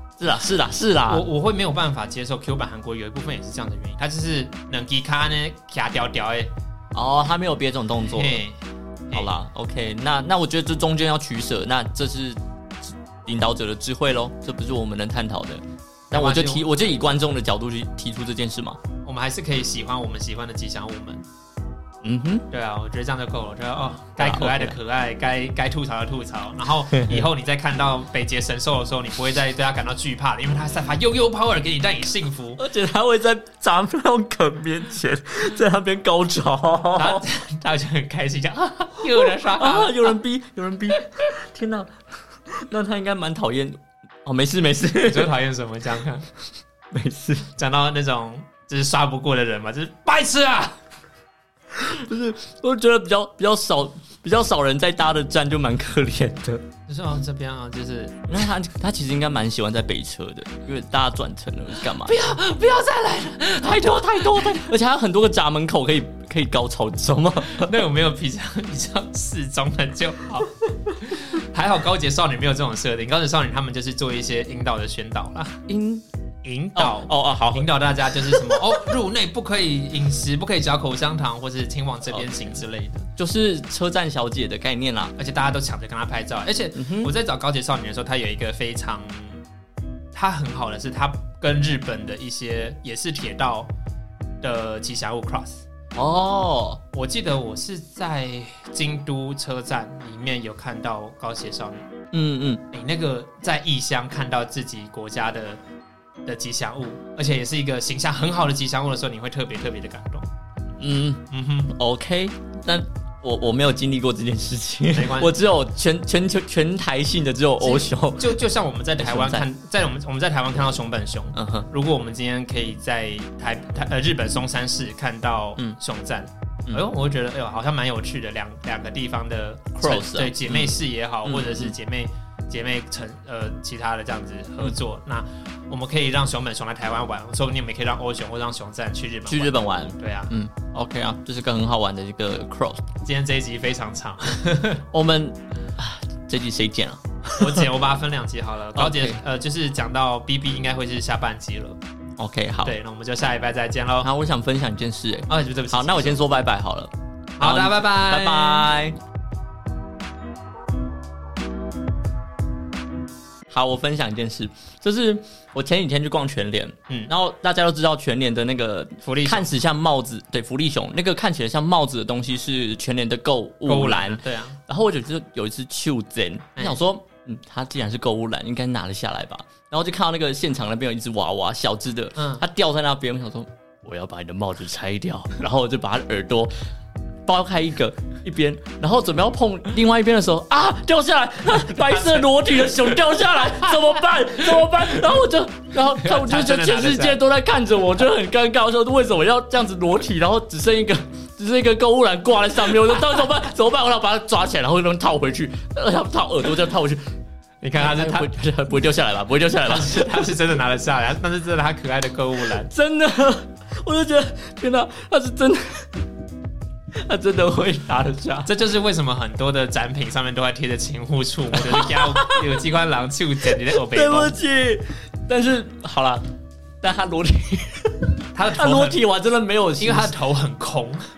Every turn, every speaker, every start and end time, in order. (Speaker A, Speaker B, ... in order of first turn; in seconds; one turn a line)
Speaker A: 0.2-1.3
Speaker B: 1.1-6.5
Speaker A: 6.9-8.4
Speaker B: 8.1-8.6
Speaker A: 9.1-18.8
Speaker B: 16.1-16.6
Speaker B: 19.0-21.2
Speaker A: 22.0-22.4
Speaker B: 22.5-32.6
Speaker A: 24.2-24.8
Speaker A: 27.0-27.2
Speaker A: 32.6-37.2
Speaker B: 36.9-40.1
Speaker A: 39.1-41.9
Speaker A: 42.5-45.3
Speaker B: 45.0-46.3
Speaker A: 46.9-47.5
Speaker B: 47.5-50.8
Speaker A: 51.7-56.6
Speaker B: 56.9-58.5
Speaker A: 58.3-62.2
Speaker B: 62.0-64.7
Speaker A: 63.6-67.8
Speaker B: 67.5-75.6
Speaker A: 75.7-76.0
Speaker B: 76.4-83.1
Speaker A: 76.7-78.9
Speaker A: 82.0-82.6
Speaker A: 83.2-85.1
Speaker B: 85.2-89.4
Speaker A: 86.7-87.1
Speaker B: 90.1-93.7
Speaker B: 94.4-95.6
Speaker A: 95.9-96.8
Speaker B: 96.9-101.9
Speaker A: 102.1-102.6
Speaker B: 102.7-105.6
Speaker B: 106.2-110.2
Speaker A: 110.8-118.4
Speaker B: 111.3-111.7
Speaker B: 114.9-115.4
Speaker B: 117.6-140.3
Speaker A: 119.0-119.5
Speaker A: 121.3-121.7
Speaker A: 129.7-131.8
Speaker A: 139.3-142.8
Speaker B: 143.0-144.8
Speaker A: 144.9-147.7
Speaker B: 147.4-151.8
Speaker A: 148.8-149.2
Speaker A: 152.2-152.8
Speaker B: 152.6-154.1
Speaker A: 154.0-158.9
Speaker B: 155.3-156.2
Speaker B: 157.4-158.7
Speaker A: 163.5-186.5
Speaker B: 169.0-169.5
Speaker B: 173.7-174.6
Speaker B: 182.2-182.4
Speaker A: 187.2-207.1
Speaker B: 191.7-192.3
Speaker B: 195.9-197.2
Speaker B: 207.6-208.3
Speaker A: 207.8-210.3
Speaker B: 209.6-212.7
Speaker A: 212.6-216.1
Speaker A: 216.9-218.5
Speaker B: 218.4-224.3
Speaker A: 221.5-222.6
Speaker A: 223.4-226.3
Speaker A: 226.8-230.1
Speaker B: 228.3-229.0
Speaker B: 229.8-231.1